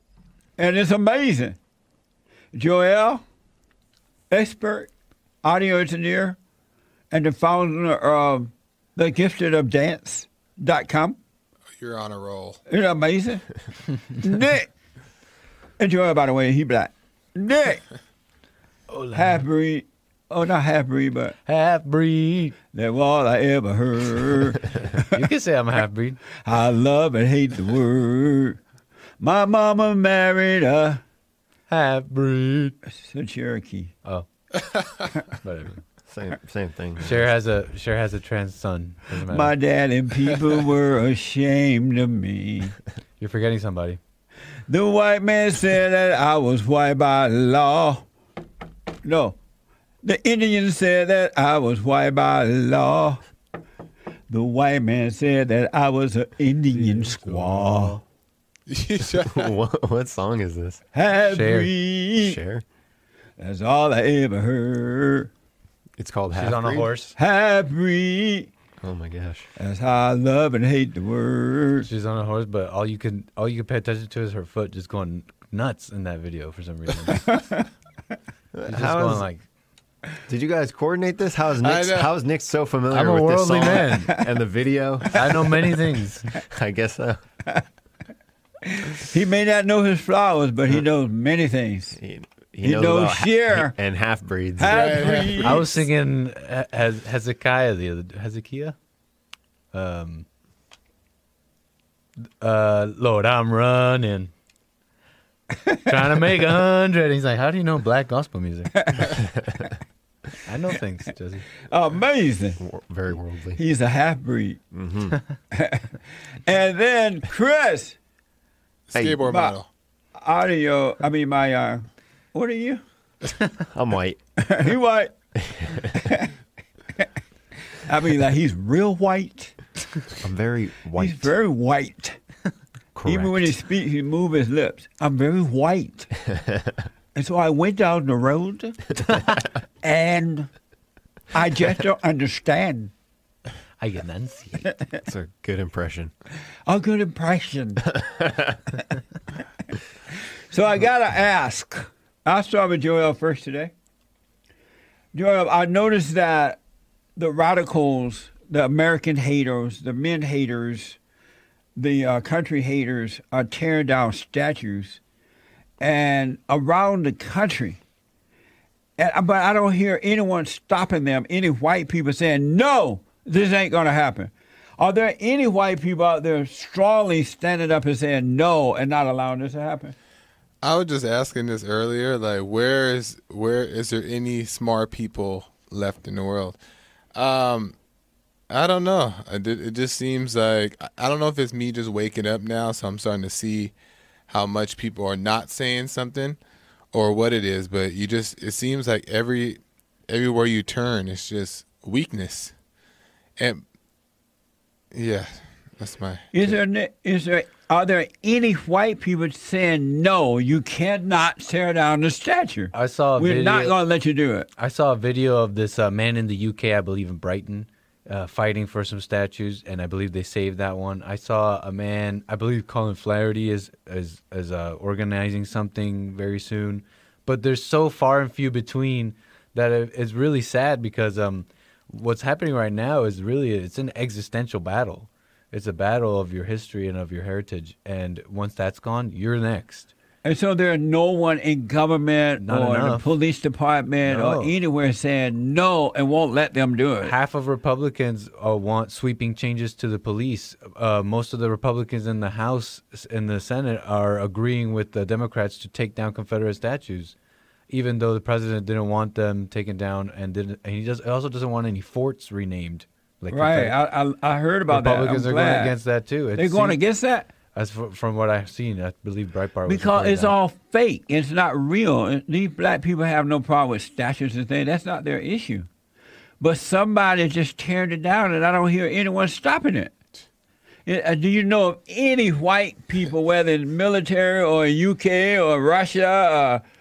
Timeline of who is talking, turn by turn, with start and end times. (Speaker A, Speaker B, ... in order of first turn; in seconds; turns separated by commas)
Speaker A: 0.6-1.6, Speaker A: 2.5-3.2, Speaker A: 4.3-4.9, Speaker A: 5.4-6.4, Speaker A: 7.1-11.2, Speaker B: 11.8-12.6, Speaker A: 12.7-13.5, Speaker A: 14.1-14.7, Speaker A: 15.8-17.8, Speaker C: 18.9-19.4, Speaker A: 19.1-21.4, Speaker C: 21.5-22.6, Speaker A: 22.7-25.0, Speaker C: 24.8-26.2, Speaker A: 26.4-28.6, Speaker A: 29.2-31.0, Speaker C: 31.7-32.8, Speaker A: 33.0-33.9, Speaker C: 35.3-35.8, Speaker D: 36.1-37.2, Speaker C: 37.0-39.6, Speaker A: 39.2-42.8, Speaker C: 43.2-44.0, Speaker A: 44.7-48.0, Speaker A: 49.0-49.4, Speaker A: 50.0-53.2, Speaker A: 54.3-58.0, Speaker C: 56.7-58.0, Speaker B: 58.7-59.5, Speaker D: 59.0-60.8, Speaker A: 60.9-62.4, Speaker C: 61.3-61.7, Speaker D: 62.2-62.6, Speaker A: 63.4-65.3, Speaker D: 66.0-66.9, Speaker C: 66.3-67.1, Speaker A: 67.2-68.5, Speaker D: 68.8-69.5, Speaker A: 69.6-71.9, Speaker C: 71.8-77.3, Speaker A: 77.3-77.7, Speaker D: 78.5-79.2, Speaker C: 78.7-79.4, Speaker D: 80.3-85.3, Speaker B: 81.6-82.1, Speaker C: 82.9-84.2, Speaker C: 85.1-86.2, Speaker D: 86.4-87.2, Speaker A: 88.8-92.0, Speaker D: 92.0-94.9, Speaker A: 92.6-93.8, Speaker A: 94.6-95.8, Speaker B: 94.6-95.6, Speaker C: 95.0-98.8, Speaker C: 99.7-100.3, Speaker C: 102.4-104.3, Speaker C: 105.8-109.1, Speaker C: 110.4-111.5, Speaker A: 111.7-112.6, Speaker D: 112.6-113.6, Speaker A: 113.6-114.6, Speaker D: 114.7-115.2, Speaker A: 115.5-115.9, Speaker A: 116.5-118.0, Speaker B: 118.9-119.7, Speaker D: 118.9-119.2, Speaker A: 119.3-119.6, Speaker A: 120.2-122.8, Speaker D: 123.7-124.2, Speaker A: 124.4-125.1, Speaker D: 125.5-126.0, Speaker A: 126.0-126.3, Speaker A: 127.9-129.6, Speaker D: 130.2-131.3, Speaker A: 131.0-132.2, Speaker D: 132.9-133.5, Speaker A: 133.1-136.1, Speaker A: 137.2-138.8, Speaker A: 139.8-140.5, Speaker A: 141.3-142.9, Speaker C: 143.8-144.7, Speaker D: 145.0-146.1, Speaker A: 146.7-147.9, Speaker D: 148.0-148.5, Speaker A: 150.5-153.7, Speaker A: 155.1-156.6, Speaker A: 157.2-161.0, Speaker A: 161.8-165.0, Speaker A: 165.8-167.8, Speaker A: 169.0-179.9, Speaker B: 180.6-186.6, Speaker B: 187.2-187.8, Speaker B: 188.5-193.8, Speaker B: 194.3-196.4, Speaker B: 196.9-202.5, Speaker B: 203.4-203.6, Speaker B: 204.9-206.6, Speaker A: 206.3-214.5, Speaker C: 212.7-213.8, Speaker C: 214.6-239.9, Speaker A: 240.2-247.1, Speaker C: 242.4-243.1, Speaker C: 244.0-244.6, Speaker C: 247.0-257.1, Speaker C: 257.7-263.8, Speaker A: 263.3-265.8, Speaker C: 264.7-266.8, Speaker A: 266.4-267.3, Speaker C: 267.5-270.4, Speaker A: 269.7-275.7, Speaker A: 276.4-279.9, Speaker A: 280.9-286.6